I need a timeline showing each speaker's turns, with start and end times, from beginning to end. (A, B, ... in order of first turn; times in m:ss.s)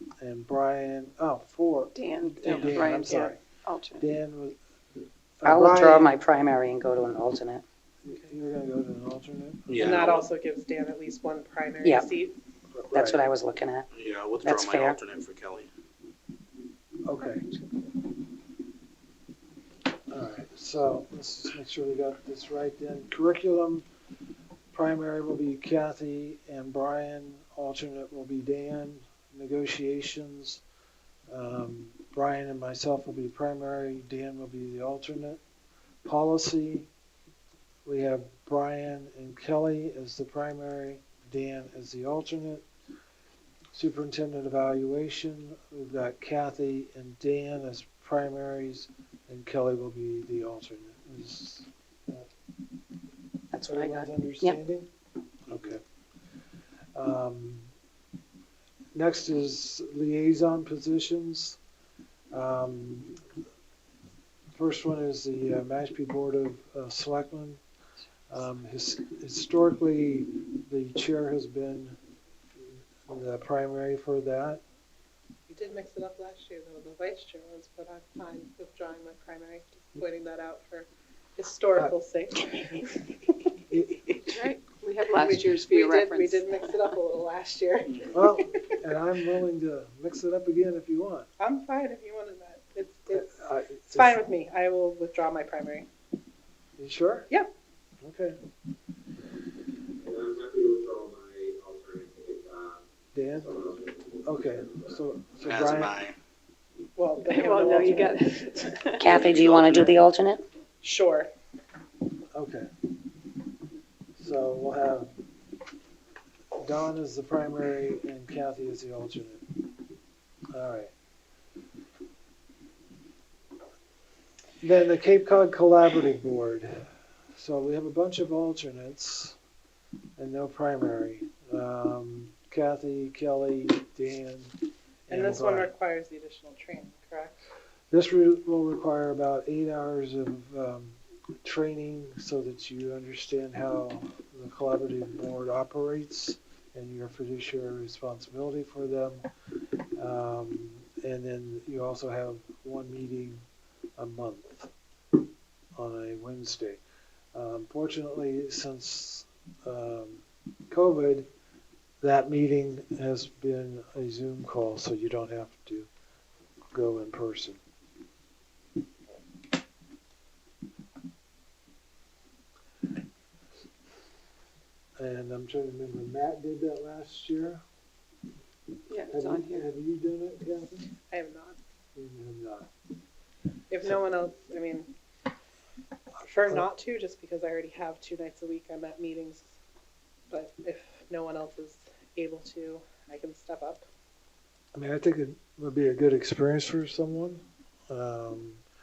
0:00.2-0:03.4 A
0:02.0-0:04.0 B
0:02.5-0:03.3 C
0:04.0-0:04.6 A
0:05.4-0:06.2 A
0:05.5-0:07.6 D
0:08.0-0:09.8 A
0:09.7-0:10.2 E
0:09.8-0:12.4 C
0:12.7-0:13.3 A
0:12.9-0:13.9 D
0:13.9-0:15.7 E
0:14.4-0:15.0 D
0:17.0-0:17.5 A
0:20.1-0:23.9 A
0:24.7-0:30.6 A
0:31.3-0:35.4 A
0:36.0-0:36.9 A
0:37.9-0:42.7 A
0:43.7-0:52.3 A
0:53.5-0:54.6 D
0:53.7-0:54.9 A
0:55.5-0:55.8 A
0:57.0-0:57.7 A
0:59.0-1:01.6 A
1:02.3-1:03.2 A
1:04.6-1:07.6 A
1:08.3-1:12.0 A
1:13.1-1:14.6 A
1:15.5-1:23.4 C
1:23.7-1:24.2 A
1:24.3-1:26.8 B
1:25.2-1:28.7 C
1:28.1-1:31.3 A
1:31.4-1:33.3 C
1:33.1-1:34.2 A
1:33.9-1:35.9 C
1:36.8-1:37.3 A
1:38.0-1:38.4 A
1:40.0-1:42.8 F
1:43.1-1:43.6 A
1:43.4-1:44.0 F
1:44.2-1:46.0 A
1:45.4-1:46.2 E
1:47.0-1:48.3 C
1:47.3-1:49.2 B
1:49.0-1:50.4 D
1:49.1-1:50.0 E
1:50.8-1:51.3 C
1:52.3-1:52.7 A
1:54.2-1:55.1 A
1:56.6-1:59.5 A
2:00.5-2:00.9 A
2:04.6-2:06.8 A
2:07.4-2:09.4 A
2:10.2-2:14.5 A
2:15.1-2:15.7 A
2:15.1-2:17.4 C
2:17.9-2:29.3 A
2:30.0-2:33.4 A
2:34.0-2:34.7 A
2:35.8-2:36.8 A
2:37.3-2:41.3 A
2:42.0-2:45.9 A
2:46.7-2:47.6 A
2:55.0-2:57.6 A
2:58.9-2:59.7 B
2:59.1-3:00.9 A
3:01.1-3:01.6 C
3:02.0-3:02.7 A
3:03.7-3:04.9 C
3:06.2-3:09.5 C
3:10.3-3:13.8 C
3:14.8-3:18.6 A